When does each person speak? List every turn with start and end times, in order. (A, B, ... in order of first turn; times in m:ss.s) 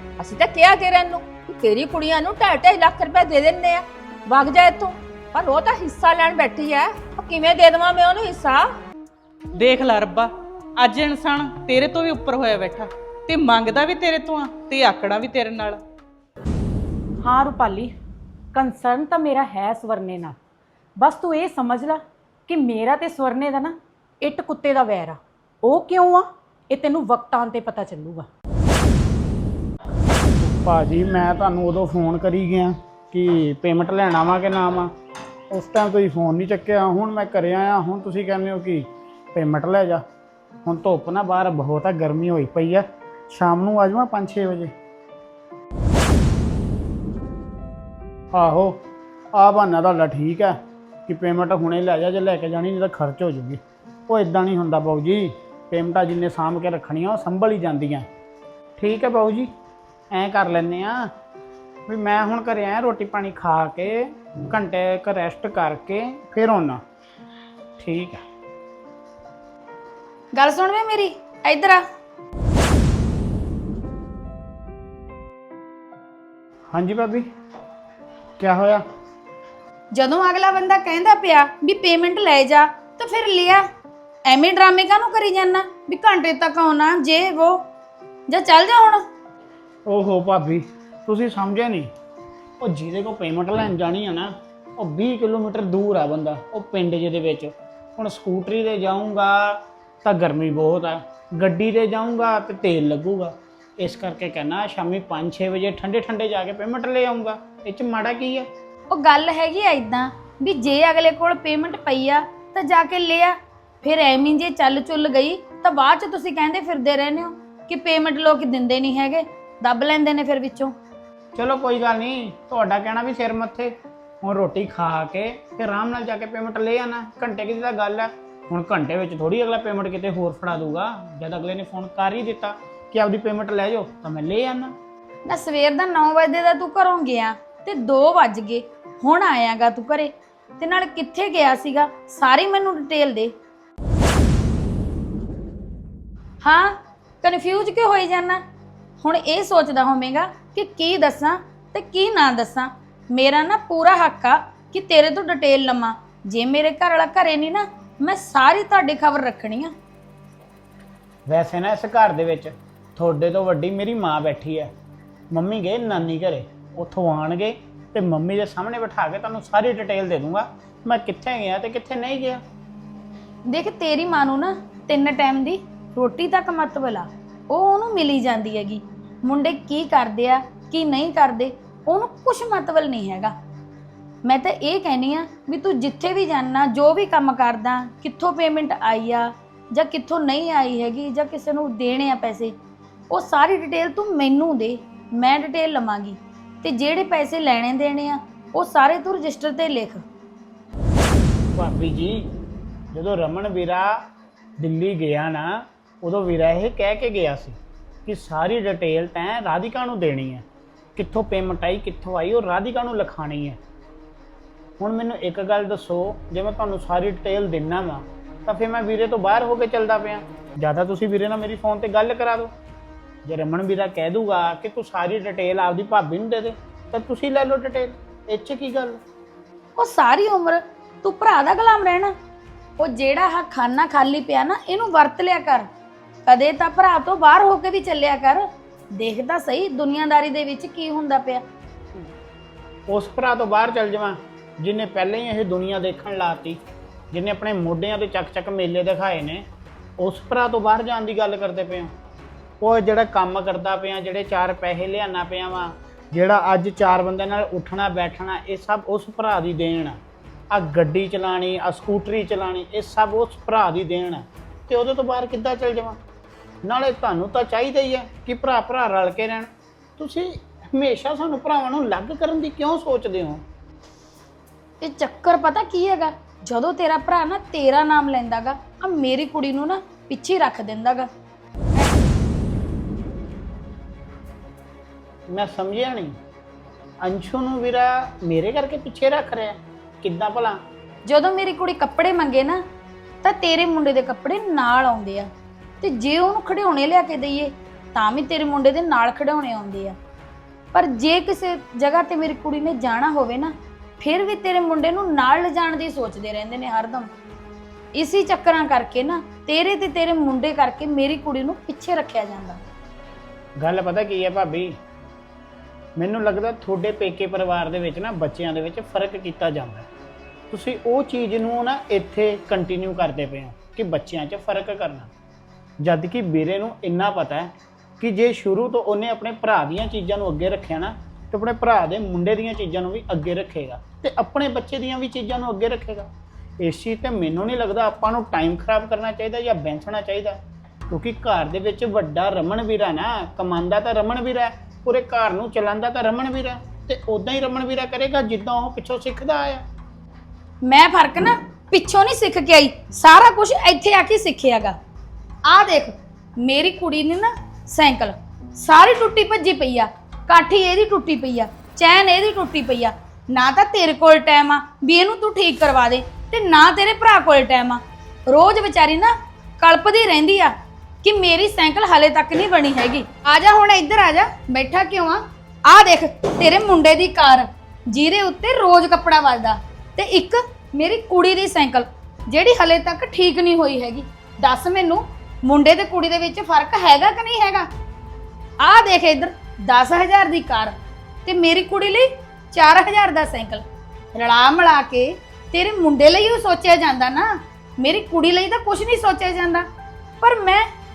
0:00.2-0:08.7 A
0:09.6-0:10.3 B
0:10.8-0:12.4 A
0:10.9-0:15.8 B
0:13.3-0:13.7 A
0:17.2-0:17.9 C
0:18.5-0:20.4 C
0:21.0-0:28.3 C
0:30.4-0:34.9 D
0:35.5-0:40.0 D
0:40.6-0:44.7 D
0:48.3-0:48.8 D
0:49.3-0:58.1 D
0:58.8-0:59.5 D
1:00.1-1:01.1 D
1:01.9-1:06.8 D
1:07.8-1:08.2 D
1:10.3-1:11.8 E
1:16.7-1:17.2 D
1:18.4-1:18.8 D
1:19.9-1:23.6 E
1:24.3-1:27.6 E
1:28.3-1:29.0 E
1:29.9-1:31.9 D
1:32.6-1:48.5 D
1:48.9-2:00.7 E
2:01.4-2:14.7 D
2:15.2-2:23.3 E
2:26.4-2:28.4 E
2:29.0-2:39.7 E
2:41.3-2:44.7 D
2:45.3-2:52.4 D
2:53.5-3:03.3 E
3:04.2-3:12.5 E
3:13.1-3:20.0 E
3:21.6-3:22.2 D
3:22.9-3:24.0 D
3:24.6-3:30.4 D
3:31.0-3:33.6 D
3:34.8-3:42.5 D
3:43.2-3:49.0 D
3:49.8-3:52.1 E
3:52.8-3:55.7 E
3:56.2-3:58.5 E
3:59.0-4:01.4 E
4:02.9-4:06.6 D
4:07.1-4:09.4 D
4:10.0-4:11.9 D
4:12.6-4:20.0 D
4:20.5-4:26.0 D
4:26.6-4:33.4 D
4:34.8-4:41.1 E
4:41.8-4:42.1 E
4:45.3-4:46.1 D
4:47.0-4:50.6 D
4:51.0-4:52.6 E
4:53.2-4:55.3 E
4:55.8-5:00.0 E
5:00.7-5:07.1 E
5:08.0-5:12.6 E
5:13.6-5:14.7 D
5:16.0-5:19.9 D
5:20.5-5:25.1 D
5:25.8-5:36.1 D
5:36.6-5:49.6 D
5:50.6-5:54.8 E
5:55.5-6:27.7 E
6:28.6-6:30.7 E
6:31.2-6:33.6 E
6:34.1-6:39.6 E
6:40.2-6:40.6 E